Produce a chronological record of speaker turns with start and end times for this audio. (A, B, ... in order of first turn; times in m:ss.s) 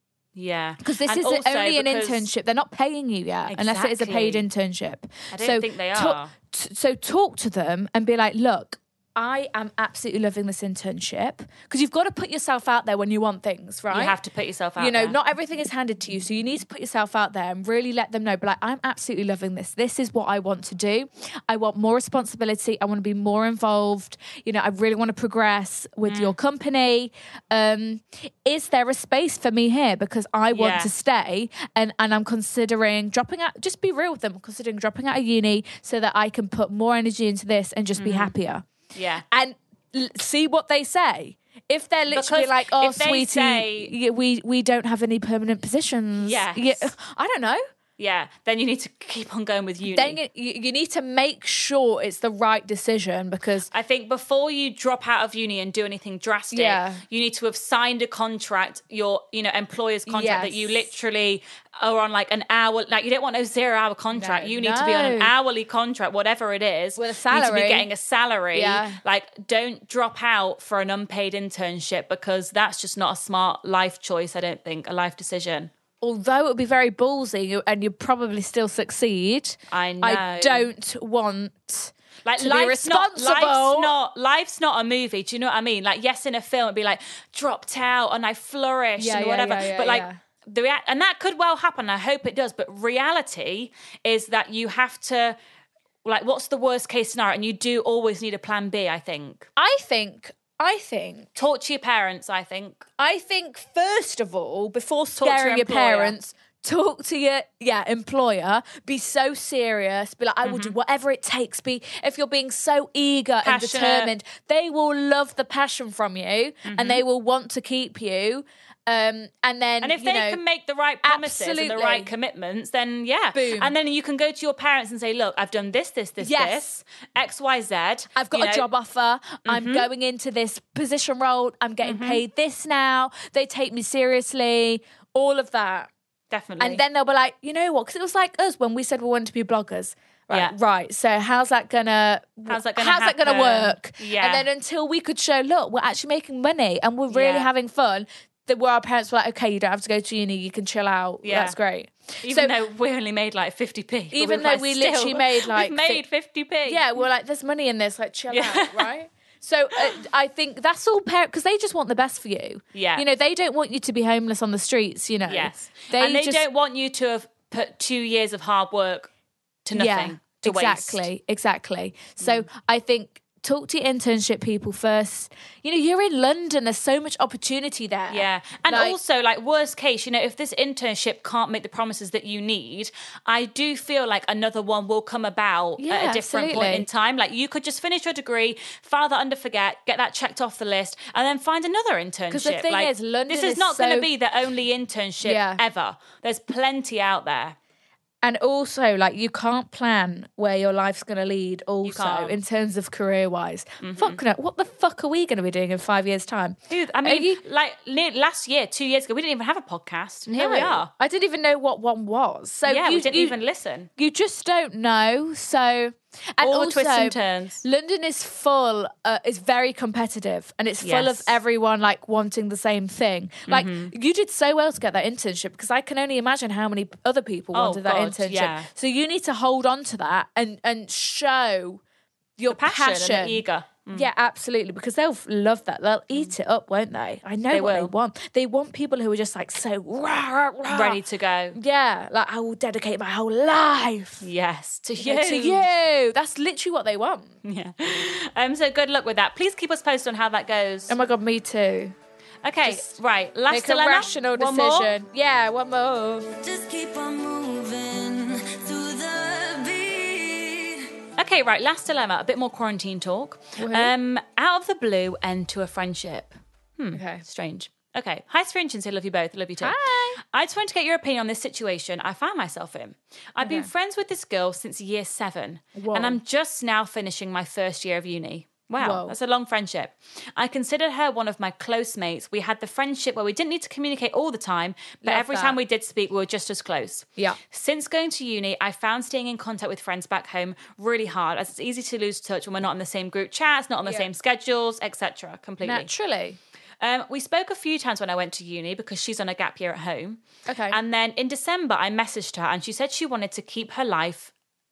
0:00.3-0:02.3 A
0:00.8-0:14.1 B
0:03.5-0:04.4 A
0:05.3-0:06.3 A
0:13.9-0:15.2 A
0:14.8-0:38.6 B
0:26.0-0:26.4 A
0:30.5-0:30.9 A
0:38.0-0:38.3 A
0:38.9-0:39.2 A
0:39.3-0:47.6 B
0:42.1-0:43.9 A
0:46.2-0:46.9 A
0:48.0-0:50.2 A
0:49.9-0:53.7 B
0:53.7-1:15.7 A
0:56.5-0:57.0 B
1:00.1-1:00.9 B
1:04.1-1:05.3 B
1:07.0-1:07.9 B
1:08.5-1:09.0 B
1:16.0-1:23.9 B
1:19.7-1:20.7 A
1:22.2-1:35.4 A
1:29.0-1:30.2 B
1:36.0-1:39.5 A
1:39.6-1:41.3 B
1:41.4-1:42.8 A
1:43.0-2:00.4 B
1:45.2-1:46.1 A
1:50.4-1:50.7 A
1:53.4-1:54.1 A
1:56.6-1:57.0 A
1:59.8-2:08.7 A
2:01.0-2:02.1 B
2:03.3-2:03.7 B
2:06.2-2:06.8 B
2:08.1-2:15.9 B
2:09.4-2:09.9 A
2:11.8-2:12.2 A
2:16.3-2:16.8 A
2:16.6-2:32.5 B
2:22.5-2:24.4 A
2:27.1-2:27.5 A
2:31.2-2:31.6 A
2:32.2-2:37.0 A
2:34.1-2:36.0 B
2:36.6-2:46.4 B
2:38.3-2:38.9 A
2:42.7-2:43.0 A
2:45.3-2:49.1 A
2:49.6-2:51.0 A
2:49.7-2:59.0 B
2:52.2-2:52.5 A
2:58.1-3:17.6 A
3:05.8-3:06.9 B
3:12.3-3:14.1 B
3:15.2-3:15.6 B
3:18.2-3:27.4 B
3:21.8-3:22.4 A
3:23.8-3:24.2 A
3:26.7-3:30.9 A
3:30.3-3:33.4 B
3:32.6-3:33.9 A
3:34.0-3:51.8 B
3:36.4-3:37.6 A
3:40.8-3:41.4 A
3:43.5-3:43.9 A
3:47.5-3:48.7 A
3:52.4-4:01.0 B
3:52.5-3:54.1 A
3:57.5-3:57.9 A
4:00.7-4:01.6 A
4:01.5-4:04.3 B
4:04.2-4:05.7 A
4:05.0-4:07.4 B
4:07.4-4:10.9 A
4:10.9-4:11.9 B
4:12.4-4:14.9 A
4:12.6-4:12.9 B
4:13.5-4:16.3 B
4:16.4-4:20.9 C
4:21.2-4:55.9 A
4:23.6-4:23.9 B
4:26.9-4:27.2 B
4:29.6-4:30.2 B
4:33.4-4:33.7 B
4:35.7-4:36.2 B
4:38.8-4:39.1 B
4:45.0-4:45.6 B
4:53.8-4:54.1 B
4:55.6-4:56.4 B
4:56.8-5:04.3 A
5:00.5-5:00.8 B